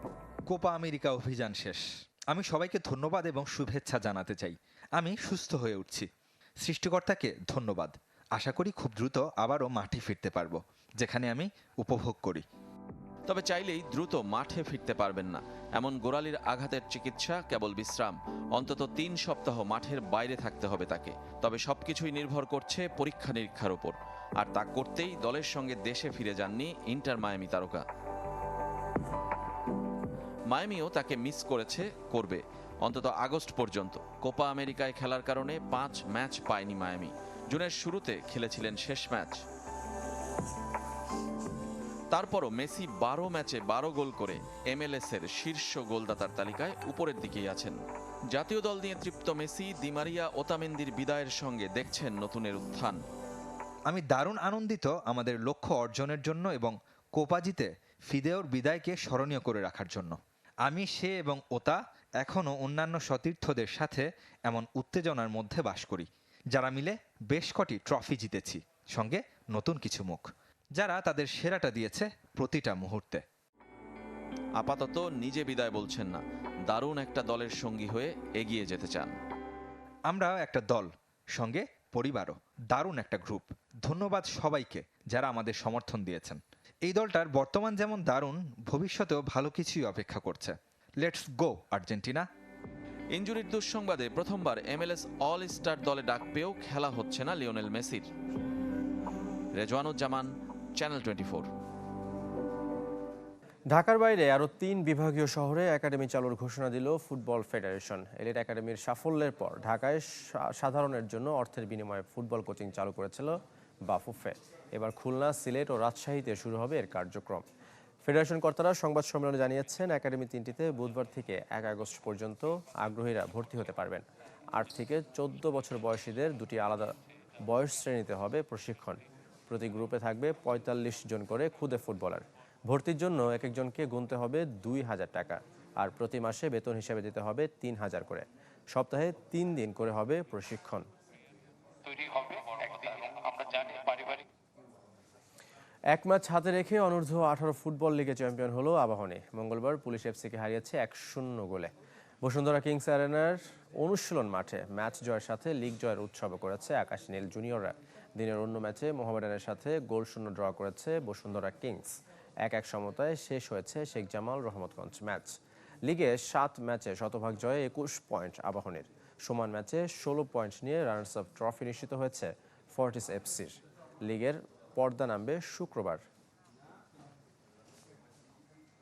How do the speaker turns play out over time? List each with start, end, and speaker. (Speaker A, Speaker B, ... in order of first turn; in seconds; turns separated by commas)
Speaker A: 0.5-6.1, Speaker A: 6.6-12.4, Speaker B: 13.3-27.8, Speaker B: 30.5-39.4, Speaker B: 42.1-47.8, Speaker B: 48.3-53.0, Speaker A: 53.9-73.2, Speaker B: 74.6-79.1, Speaker A: 80.1-92.3, Speaker B: 93.1-98.0, Speaker B: 99.6-100.3, Speaker B: 100.8-101.5, Speaker C: 103.7-113.3, Speaker C: 113.9-117.4, Speaker C: 118.0-126.9, Speaker C: 127.5-140.8, Speaker C: 145.9-151.7, Speaker C: 152.2-165.3, Speaker C: 165.8-176.0